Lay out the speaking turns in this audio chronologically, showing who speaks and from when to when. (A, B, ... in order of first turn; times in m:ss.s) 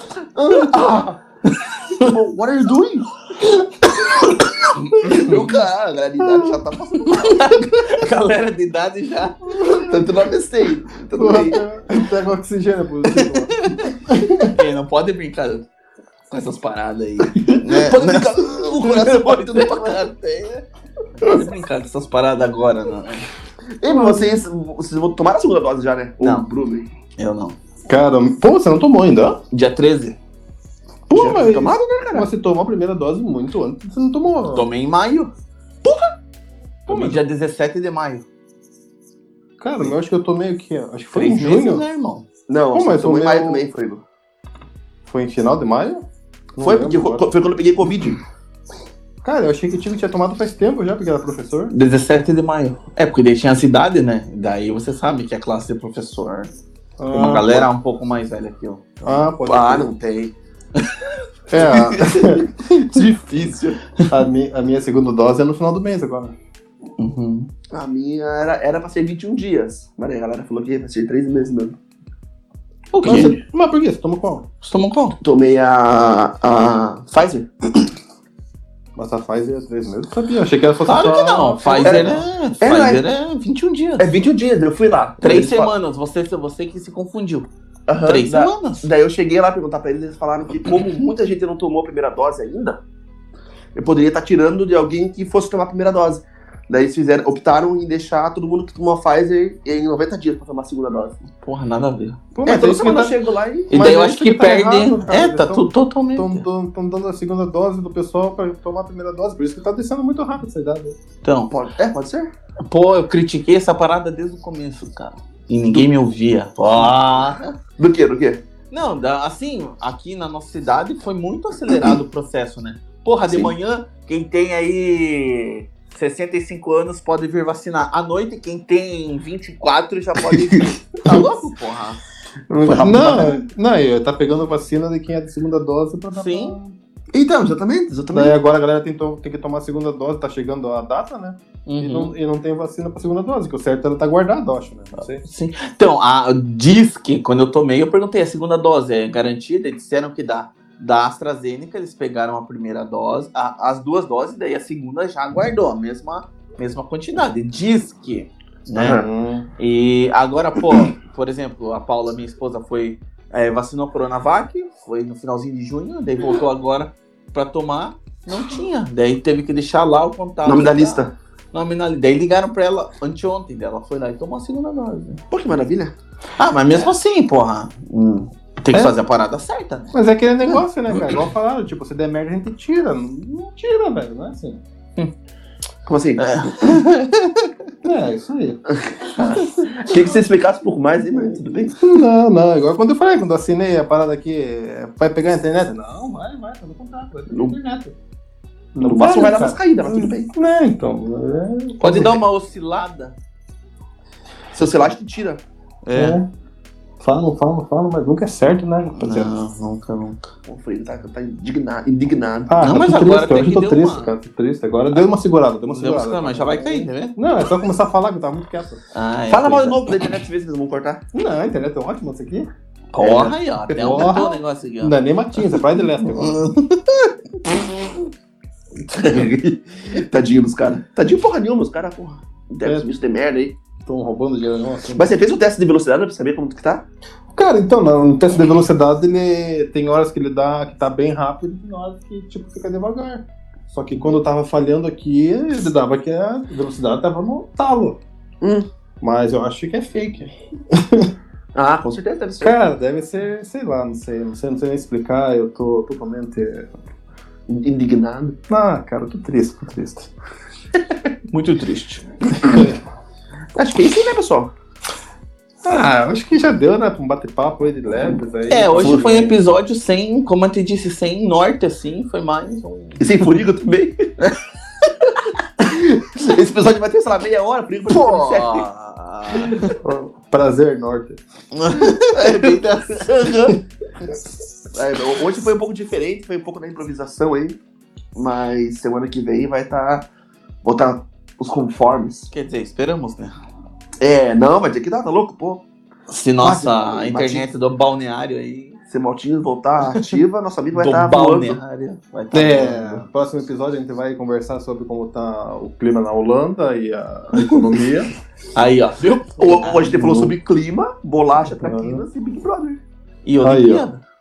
0:00.2-0:01.2 A
0:01.5-0:02.1 B
0:02.0-0:03.1 A
0:04.0-0:05.3 B
0:05.0-0:07.6 A
0:06.2-0:06.5 C
0:07.1-0:09.8 B
0:09.4-0:10.1 C
0:09.6-0:11.6 A
0:11.2-0:14.6 C
0:13.0-0:15.6 B
0:16.3-0:20.6 B
0:17.4-0:20.0 A
0:21.2-0:23.3 B
0:23.8-0:26.9 A
0:23.8-0:24.4 C
0:26.2-0:26.5 B
0:27.2-0:27.6 B
0:27.9-0:29.4 C
0:29.5-0:30.2 B
0:31.1-0:34.6 C
0:31.1-0:32.3 A
0:34.5-0:35.3 B
0:36.9-0:38.2 B
0:36.9-0:37.2 C
0:39.6-0:41.8 C
0:41.1-0:42.2 B
0:42.5-0:44.0 A
0:42.7-0:43.6 C
0:45.1-0:46.0 C
0:46.6-0:47.2 C
0:46.6-0:48.2 A
0:49.2-0:51.7 C
0:51.7-0:56.5 B
0:57.0-0:57.7 C
0:57.1-0:59.2 B
0:59.0-0:59.9 C
0:59.4-1:00.3 A
1:00.8-1:01.1 B
1:01.5-1:03.0 C
1:01.5-1:03.8 A
1:04.1-1:06.3 C
1:07.0-1:07.5 B
1:07.7-1:11.8 A
1:12.9-1:13.4 B
1:13.0-1:14.4 C
1:14.6-1:15.2 B
1:15.2-1:17.5 A
1:19.0-1:22.2 C
1:20.8-1:24.1 B
1:21.8-1:23.0 A
1:24.0-1:25.7 A
1:25.2-1:27.5 B
1:27.9-1:32.8 A
1:28.0-1:28.9 B
1:33.7-1:41.2 A
1:41.4-1:42.2 B
1:42.3-1:43.2 C
1:42.4-1:43.7 A
1:43.7-1:46.4 B
1:43.7-1:51.0 C
1:51.2-1:51.5 B
1:51.5-1:52.3 A
1:52.7-1:57.5 B
1:57.8-1:58.4 A
1:58.7-2:12.0 B
2:03.3-2:03.5 A
2:12.5-2:16.8 C
2:12.6-2:13.4 A
2:16.1-2:16.6 B
2:17.1-2:18.3 A
2:18.1-2:25.2 C
2:21.7-2:22.1 B
2:25.0-2:39.0 B
2:38.7-2:39.0 A
2:38.8-2:39.5 C
2:39.6-2:55.2 B
2:50.4-2:51.1 A
2:55.3-2:55.9 A
2:56.4-2:59.9 B
2:59.9-3:04.6 C
3:05.8-3:06.3 A
3:06.2-3:07.5 B
3:07.8-3:08.6 C
3:08.7-3:11.8 A
3:09.9-3:10.2 C
3:11.8-3:18.0 C
3:17.3-3:17.6 A
3:18.7-3:22.2 C
3:18.8-3:20.3 A
3:21.8-3:23.1 B
3:24.5-3:25.4 A
3:25.8-3:26.2 B
3:25.9-3:26.2 C
3:27.0-3:29.3 C
3:29.0-3:30.3 B
3:30.5-3:32.6 A
3:32.5-3:38.8 C
3:32.6-3:34.1 B
3:35.7-3:37.1 B
3:38.9-3:39.9 B
3:39.3-3:41.0 A
3:41.1-3:42.5 C
3:42.9-3:47.1 B
3:43.0-3:43.3 A
3:43.8-3:46.4 C
3:43.8-3:44.2 A
3:48.9-3:53.5 A
3:53.8-3:55.1 C
3:54.9-3:56.8 A
3:57.3-4:08.0 C
4:09.0-4:11.1 C
4:11.5-4:12.5 A
4:12.4-4:16.7 C
4:17.5-4:18.4 A
4:18.5-4:20.1 C
4:21.3-4:22.0 B
4:22.4-4:22.8 C
4:23.6-4:24.5 A
4:25.6-4:29.3 C
4:28.5-4:33.2 B
4:28.8-4:29.1 A
4:33.0-4:34.0 A
4:34.2-4:35.3 B
4:35.6-4:38.7 A
4:37.9-4:39.8 B
4:39.8-4:41.2 C
4:41.5-4:43.0 B
4:41.9-4:43.6 A
4:44.7-4:47.6 A
4:48.1-4:50.0 A
4:50.6-4:52.3 A
4:52.3-4:53.4 B
4:54.0-4:55.6 A
4:56.1-4:58.8 B
4:56.4-4:57.5 A
4:58.9-5:01.6 A
4:59.9-5:00.2 B
5:00.7-5:03.0 B
5:02.3-5:08.1 C
5:08.5-5:10.0 B
5:09.4-5:12.8 A
5:09.8-5:10.3 C
5:11.5-5:12.0 C
5:13.2-5:14.0 B
5:13.4-5:13.9 C